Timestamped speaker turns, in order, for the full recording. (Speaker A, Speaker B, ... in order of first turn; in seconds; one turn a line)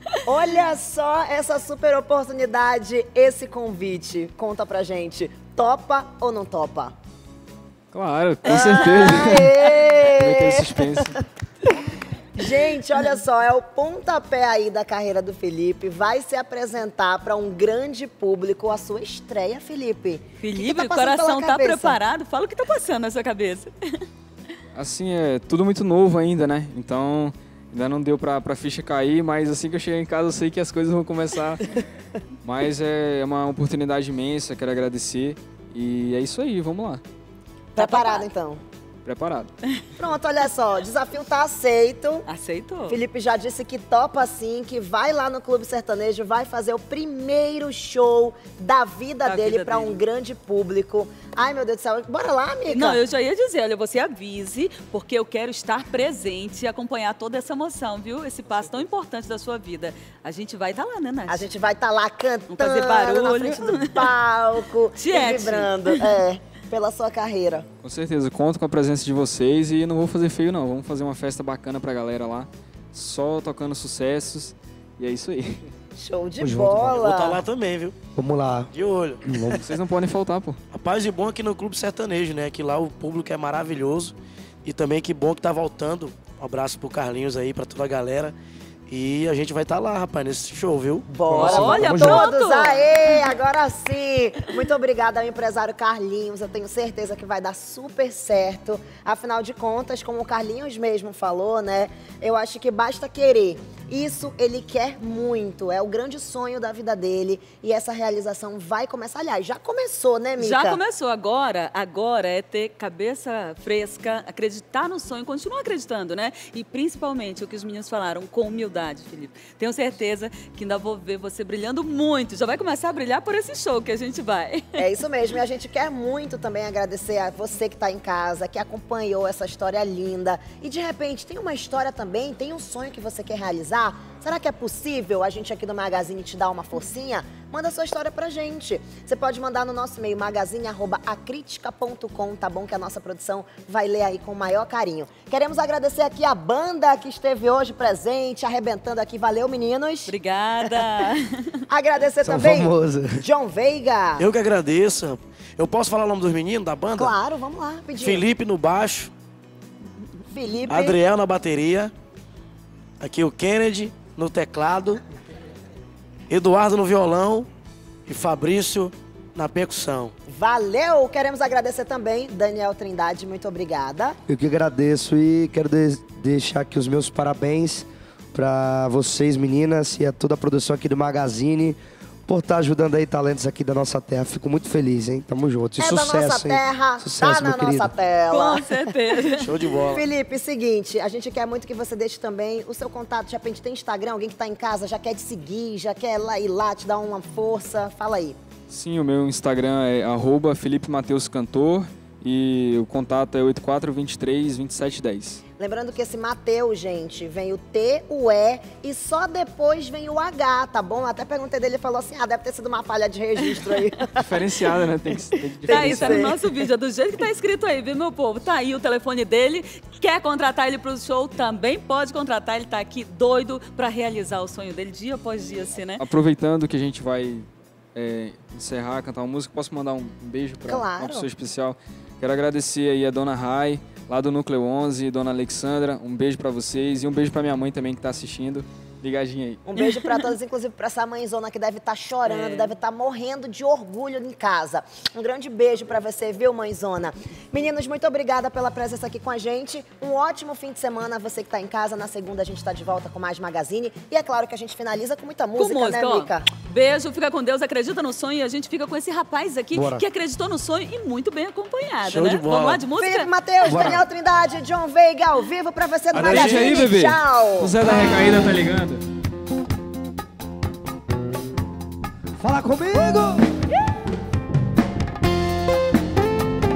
Speaker A: 0.2-7.0
Speaker B: 7.9-11.2
Speaker A: 8.4-11.1
Speaker A: 12.3-22.0
Speaker C: 20.4-23.7
Speaker B: 24.7-31.8
Speaker B: 32.4-37.0
Speaker A: 37.7-38.6
Speaker C: 37.8-38.3
Speaker B: 39.0-39.5
Speaker A: 40.0-42.3
Speaker C: 42.2-43.0
Speaker A: 42.9-53.0
Speaker C: 49.2-50.0
Speaker C: 52.7-61.5
Speaker A: 61.3-67.7
Speaker C: 62.5-64.2
Speaker C: 65.0-66.2
Speaker B: 67.8-75.7
Speaker A: 76.0-77.4
Speaker D: 76.4-77.0
Speaker E: 76.9-77.9
Speaker D: 78.1-78.7
Speaker E: 78.7-79.4
Speaker D: 79.2-79.6
Speaker B: 79.6-80.6
Speaker E: 80.7-88.3
Speaker E: 88.9-91.0
Speaker A: 91.0-110.8
Speaker D: 91.3-92.3
Speaker C: 91.4-92.9
Speaker C: 110.4-124.9
Speaker A: 124.8-150.2
Speaker C: 150.1-151.2
Speaker A: 151.7-154.2
Speaker D: 152.2-153.1
Speaker E: 154.2-157.1
Speaker A: 156.9-158.2
Speaker E: 158.0-159.1
Speaker A: 160.3-161.0
Speaker E: 160.7-161.9
Speaker E: 163.0-165.0
Speaker E: 166.3-167.5
Speaker E: 168.1-170.1
Speaker A: 170.3-174.2
Speaker D: 174.3-187.9
Speaker A: 185.8-189.2
Speaker C: 188.3-189.5
Speaker E: 189.4-190.0
Speaker A: 189.7-198.4
Speaker B: 198.7-205.4
Speaker A: 205.6-214.3
Speaker B: 214.2-216.3
Speaker A: 215.6-216.7
Speaker C: 215.7-226.0
Speaker B: 226.0-239.6
Speaker A: 230.7-231.3
Speaker A: 239.6-256.4
Speaker C: 242.2-242.6
Speaker C: 255.5-263.4
Speaker D: 259.7-260.0
Speaker E: 262.0-262.8
Speaker A: 262.9-267.7
Speaker D: 263.6-264.0
Speaker B: 266.1-269.0
Speaker E: 266.3-266.8
Speaker D: 272.4-273.5